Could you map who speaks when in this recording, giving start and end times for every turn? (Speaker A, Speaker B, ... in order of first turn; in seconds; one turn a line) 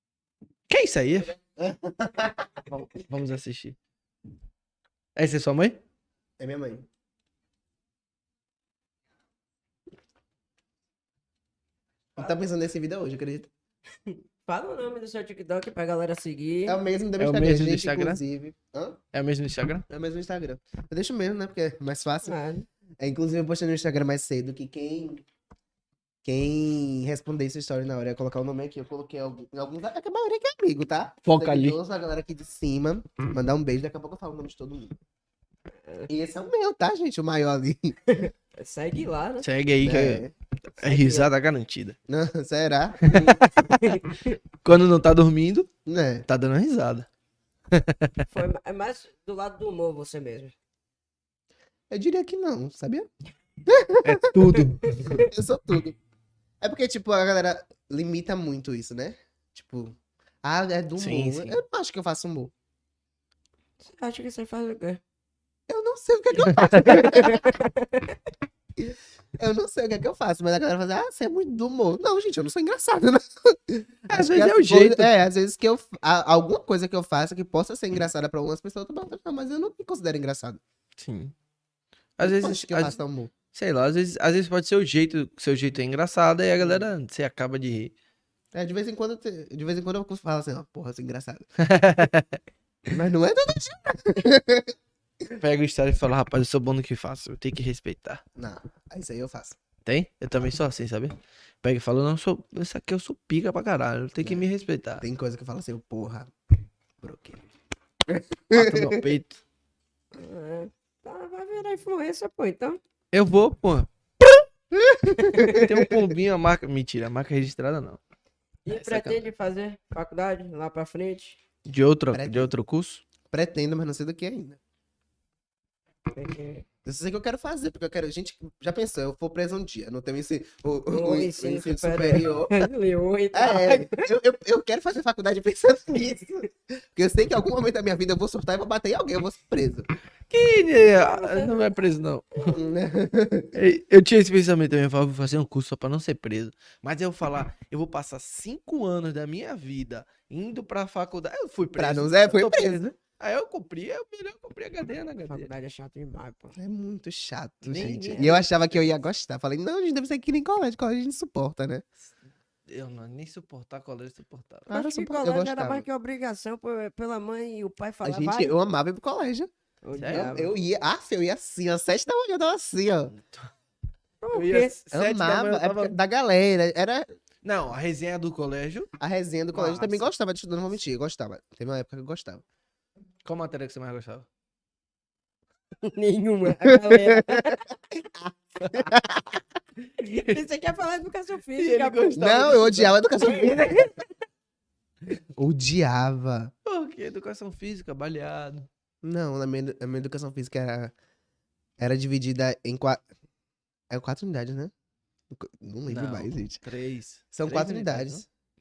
Speaker A: 0.7-1.4
Speaker B: 1.6-2.5
Speaker A: 2.7-3.8
Speaker A: 5.2-5.8
Speaker B: 6.4-6.9
Speaker B: 12.2-13.5
Speaker C: 14.1-16.8
Speaker B: 16.7-19.0
Speaker A: 17.2-18.2
Speaker A: 19.1-19.8
Speaker B: 19.9-22.3
Speaker C: 22.2-22.7
Speaker B: 23.0-25.2
Speaker B: 26.2-35.0
Speaker A: 31.2-31.8
Speaker B: 36.1-38.0
Speaker C: 38.1-39.5
Speaker A: 39.4-40.3
Speaker B: 39.8-40.3
Speaker A: 40.8-42.0
Speaker C: 40.8-41.3
Speaker B: 42.1-43.4
Speaker A: 43.0-44.0
Speaker C: 43.7-44.4
Speaker A: 44.6-45.7
Speaker B: 45.9-46.2
Speaker A: 46.3-47.1
Speaker A: 47.7-48.2
Speaker C: 48.3-50.5
Speaker B: 51.9-53.1
Speaker B: 53.6-54.5
Speaker A: 54.0-55.0
Speaker C: 54.8-55.3
Speaker B: 55.0-56.0
Speaker B: 56.6-62.5
Speaker A: 61.0-61.6
Speaker C: 63.8-65.0
Speaker B: 65.7-67.5
Speaker A: 66.5-67.2
Speaker C: 66.8-68.2
Speaker B: 68.8-80.6
Speaker A: 74.1-75.1
Speaker A: 81.0-81.3
Speaker A: 82.2-83.0
Speaker B: 82.2-83.3
Speaker A: 83.5-87.9
Speaker B: 88.5-91.5
Speaker A: 91.6-92.4
Speaker B: 92.9-94.7
Speaker A: 95.3-98.2
Speaker B: 98.3-99.6
Speaker A: 99.8-105.0
Speaker B: 104.2-104.5
Speaker B: 105.0-106.3
Speaker B: 107.0-107.4
Speaker B: 108.1-109.1
Speaker A: 108.5-109.4
Speaker C: 110.1-112.8
Speaker A: 113.1-113.9
Speaker B: 114.7-116.0
Speaker C: 115.2-115.6
Speaker A: 115.5-118.0
Speaker C: 118.7-121.4
Speaker A: 118.7-119.3
Speaker A: 121.6-123.0
Speaker B: 122.1-122.5
Speaker B: 123.3-124.6
Speaker C: 126.1-126.6
Speaker B: 126.8-132.7
Speaker C: 130.9-134.0
Speaker B: 133.3-139.9
Speaker A: 140.3-142.5
Speaker C: 140.9-142.6
Speaker B: 142.5-143.5
Speaker A: 143.5-155.5
Speaker B: 151.8-152.8
Speaker C: 155.3-156.6
Speaker B: 156.6-161.8
Speaker A: 157.6-158.5
Speaker C: 157.8-158.4
Speaker A: 162.7-164.7
Speaker B: 164.7-165.8
Speaker C: 164.7-168.5
Speaker B: 168.0-169.5
Speaker C: 169.8-170.5
Speaker A: 169.9-170.3
Speaker B: 170.1-173.1
Speaker A: 173.1-173.5
Speaker C: 174.2-174.7
Speaker A: 174.3-175.9
Speaker B: 174.9-177.1
Speaker A: 177.4-178.9
Speaker B: 179.0-182.4
Speaker A: 179.5-180.1
Speaker A: 183.2-184.2
Speaker C: 185.8-187.6
Speaker B: 186.6-189.4
Speaker C: 190.0-192.6
Speaker A: 191.6-192.9
Speaker B: 192.2-193.9
Speaker C: 193.2-194.0
Speaker B: 195.3-196.5
Speaker A: 196.7-198.7
Speaker B: 199.0-200.9
Speaker B: 201.8-203.0
Speaker B: 203.9-204.7
Speaker B: 205.3-206.6
Speaker A: 205.9-208.2
Speaker B: 207.3-208.2